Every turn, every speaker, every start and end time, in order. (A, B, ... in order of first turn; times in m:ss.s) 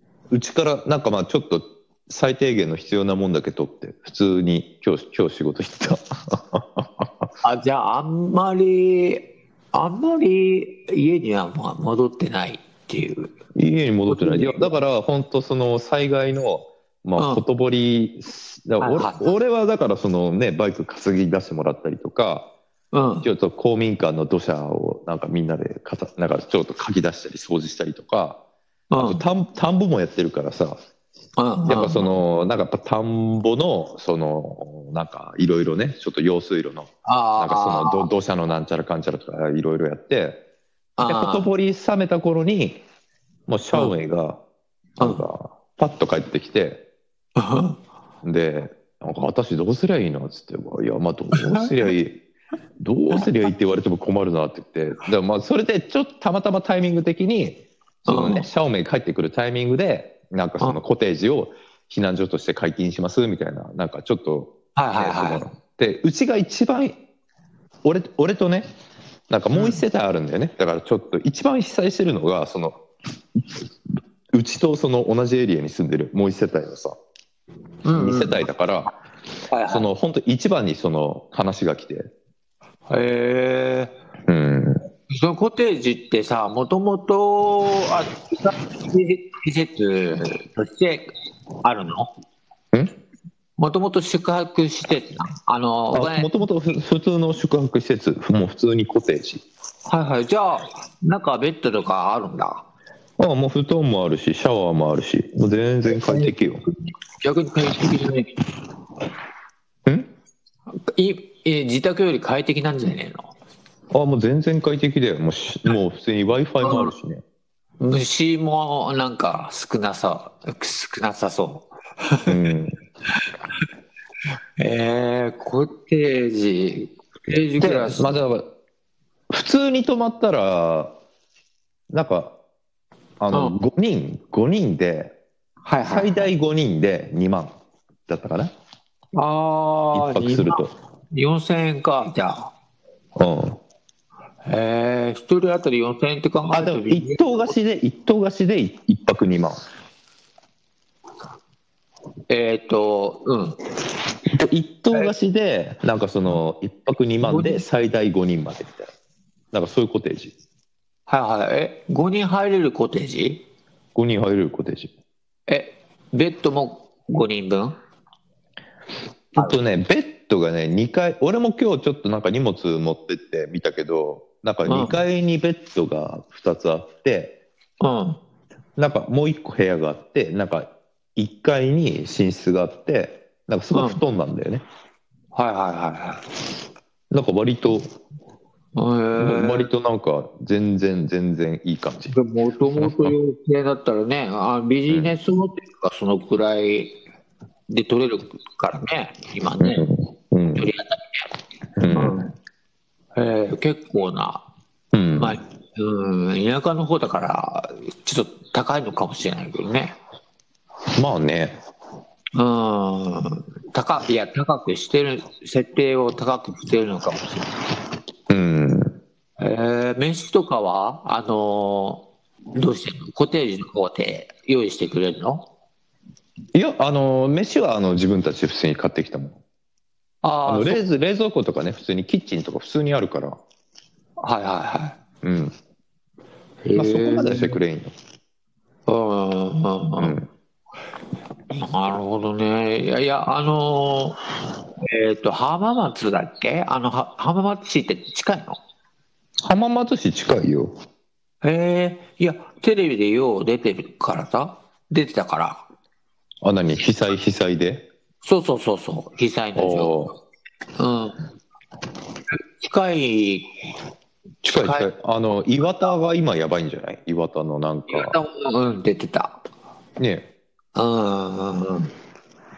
0:00.3-0:07.2 A
0:07.4-0:13.3 B
0:13.5-0:22.5 A
0:14.1-0:14.7 B
0:17.2-0:17.4 B
0:18.8-0:19.3 B
0:22.9-0:23.3 B
0:23.2-0:28.4 A
0:28.9-0:29.2 B
0:29.0-0:30.8 A
0:31.4-0:32.1 B
0:31.7-0:40.4 A
0:37.0-0:38.1 B
0:41.0-0:41.5 B
0:41.0-0:42.8 A
0:43.5-0:44.4 A
0:45.0-0:46.8 A
0:45.0-0:45.2 B
0:47.4-0:47.8 B
0:48.2-0:52.2 A
0:51.3-0:51.7 B
0:52.8-1:07.0 A
0:58.1-0:58.5 B
1:04.8-1:05.4 B
1:07.8-1:08.7 A
1:09.3-1:12.8 A
1:09.5-1:09.8 B
1:14.3-1:17.0 A
1:17.8-1:18.4 B
1:18.0-1:18.9 A
1:19.5-1:19.8 B
1:19.7-1:22.1 A
1:22.9-1:23.9 B
1:24.3-1:24.8 A
1:25.1-1:31.1 B
1:31.6-1:32.1 B
1:33.6-1:36.3 B
1:35.9-1:39.4 A
1:39.9-1:42.6 B
1:43.2-1:46.6 A
1:45.9-1:48.4 B
1:50.7-1:53.3 B
1:53.9-1:57.2 A
1:56.6-1:56.9 B
1:57.8-2:02.3 B
2:02.3-2:02.7 A
2:04.6-2:08.2 B
2:07.6-2:08.5 A
2:09.3-2:10.9 A
2:11.9-2:12.3 A
2:13.2-2:15.1 A
2:15.6-2:16.3 B
2:15.8-2:17.5 A
2:18.1-2:18.5 A
2:19.1-2:22.5 B
2:19.9-2:20.7 A
2:23.2-2:23.6 A
2:24.4-2:27.5 B
2:26.5-2:29.6 A
2:32.3-2:33.6 B
2:34.3-2:38.9 A
2:37.2-2:37.6 B
2:39.5-2:40.3 A
2:41.1-2:43.4 B
2:43.9-2:44.9 A
2:45.5-2:47.8 B
2:49.4-2:57.3 A
2:54.6-2:55.0 B
2:57.8-2:58.2 B
2:58.8-3:04.6 A
3:03.7-3:04.0 B
3:05.3-3:06.2 B
3:07.1-3:07.9 A
3:08.7-3:09.7 B
3:09.2-3:12.2 A
3:12.1-3:16.9 B
3:12.7-3:13.1 A
3:14.9-3:15.1 A
3:17.7-3:19.8 B
3:19.6-3:20.7 A
3:20.6-3:21.3 B
3:21.8-3:22.2 A
3:21.9-3:22.3 B
3:23.2-3:24.4 B
3:24.9-3:25.4 A
3:25.2-3:30.0 B
3:31.0-3:31.5 A
3:32.3-3:37.5 B
3:38.3-3:38.9 A
3:39.4-3:42.0 B
3:42.5-3:45.4 B
3:46.5-3:49.4 A
3:50.2-3:50.8 B
3:50.4-3:53.4 A
3:54.2-3:55.0 B
3:55.2-3:55.5 A
3:56.6-3:57.6 B
3:56.7-3:57.9 A
3:58.9-4:00.2 B
4:00.0-4:00.3 A
4:01.5-4:04.2 B
4:04.8-4:08.6 B
4:09.4-4:10.7 A
4:11.4-4:15.6 B
4:16.4-4:17.8 A
4:18.2-4:20.1 B
4:19.6-4:20.1 A
4:20.8-4:21.2 B
4:22.3-4:23.5 B
4:24.4-4:28.2 A
4:24.5-4:24.9 B
4:27.9-4:29.4 B
4:30.0-4:30.2 A
4:30.7-4:31.9 B